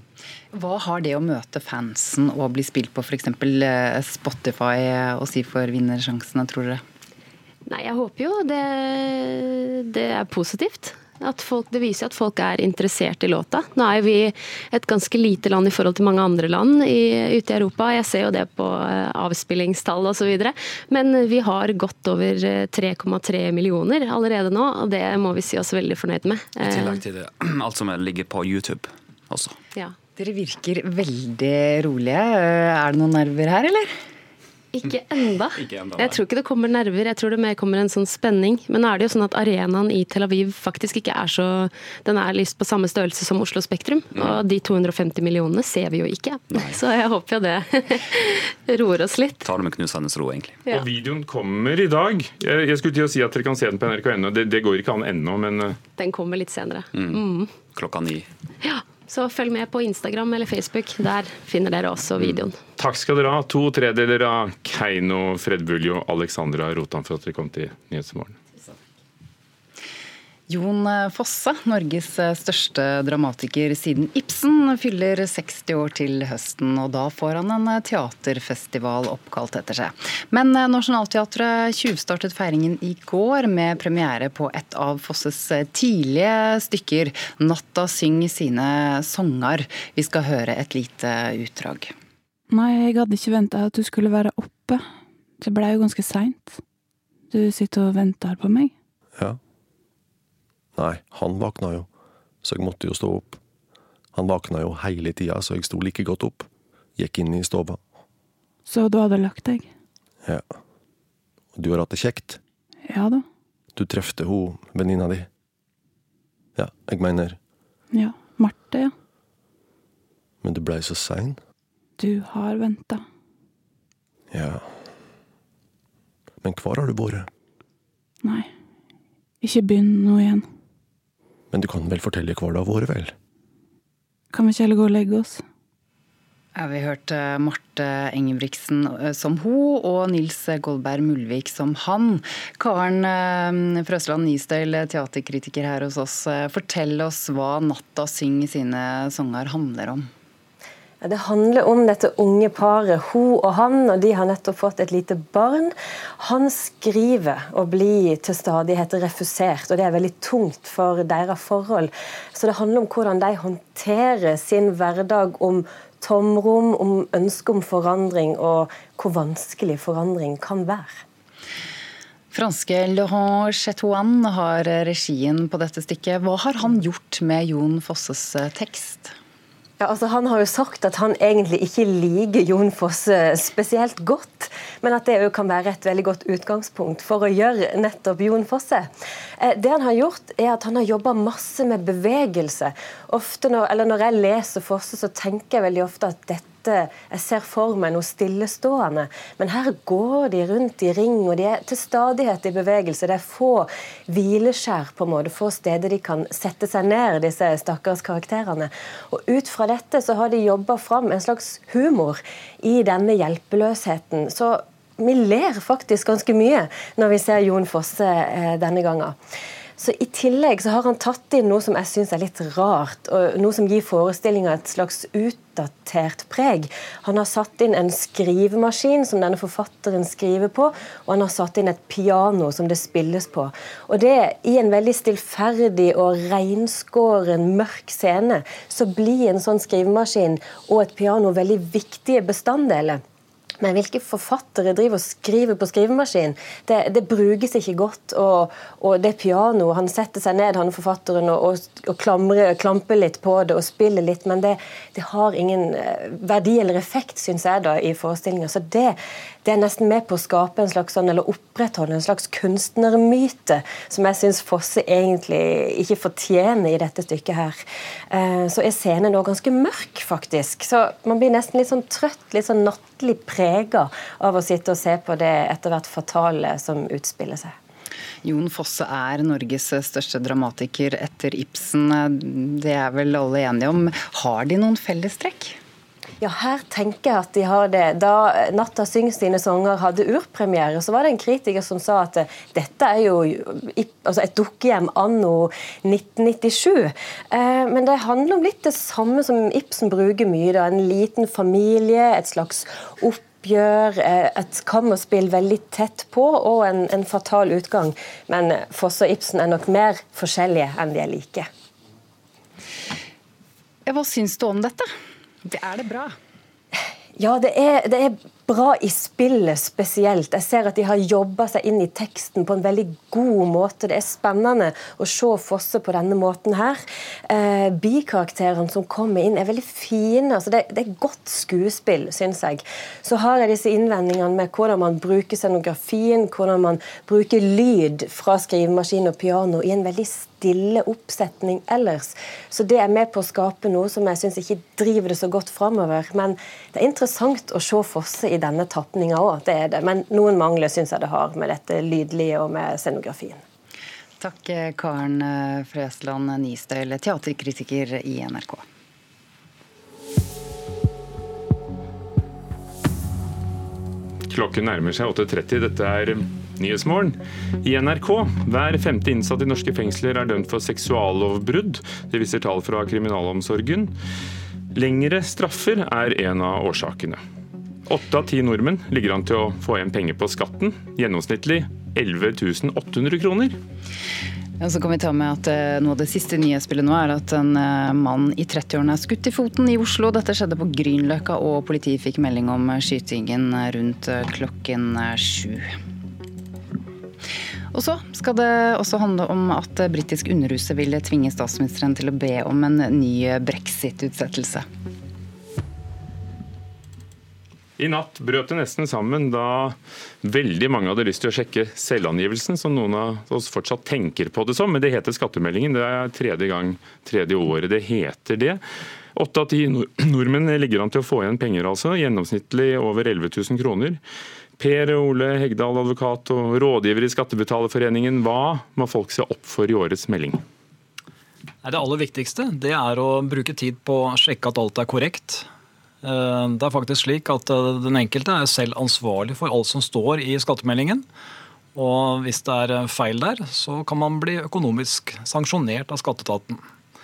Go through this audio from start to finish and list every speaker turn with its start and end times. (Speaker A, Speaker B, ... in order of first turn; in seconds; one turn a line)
Speaker A: 0.5-6.8
Speaker B: 7.7-27.0
Speaker C: 26.6-29.6
Speaker A: 30.2-33.9
Speaker B: 34.7-49.5
Speaker C: 35.5-36.2
Speaker C: 49.4-50.5
Speaker D: 50.7-55.8
Speaker B: 56.0-57.6
Speaker C: 56.9-58.3
Speaker B: 58.6-62.6
Speaker D: 62.8-68.3
Speaker A: 70.5-91.9
Speaker E: 92.5-94.8
Speaker E: 95.4-96.6
Speaker E: 97.3-98.7
Speaker F: 100.8-101.9
Speaker F: 102.4-103.4
Speaker F: 104.1-107.8
Speaker E: 108.7-109.7
Speaker F: 110.2-110.5
Speaker F: 111.5-112.4
Speaker E: 112.8-113.2
Speaker F: 113.8-115.3
Speaker F: 116.6-117.4
Speaker E: 117.9-118.9
Speaker F: 120.4-121.4
Speaker E: 122.0-123.0
Speaker F: 124.3-124.7
Speaker F: 126.4-127.3
Speaker E: 128.2-128.5
Speaker E: 129.4-130.5
Speaker F: 131.5-133.1
Speaker E: 134.3-135.4
Speaker A: 136.6-150.1
Speaker G: 151.0-171.0
Speaker A: 172.3-179.1
Speaker G: 179.8-188.9
Speaker G: 189.4-219.2
Speaker G: 219.8-243.0
Speaker G: 243.6-267.6
Speaker G: 268.1-277.6
Speaker A: 278.2-285.6
Speaker G: 286.2-311.5
Speaker A: 313.9-314.9
Speaker A: 315.4-316.1
Speaker G: 317.2-353.4
Speaker A: 354.2-358.6
Speaker D: 364.3-373.9
Speaker D: 374.8-377.2
Speaker D: 377.9-383.6
Speaker A: 384.6-395.7
Speaker A: 397.7-404.7
Speaker D: 407.8-418.6
Speaker D: 419.1-424.0
Speaker D: 424.6-430.4
Speaker H: 431.6-435.5
Speaker H: 436.0-441.1
Speaker H: 441.8-446.6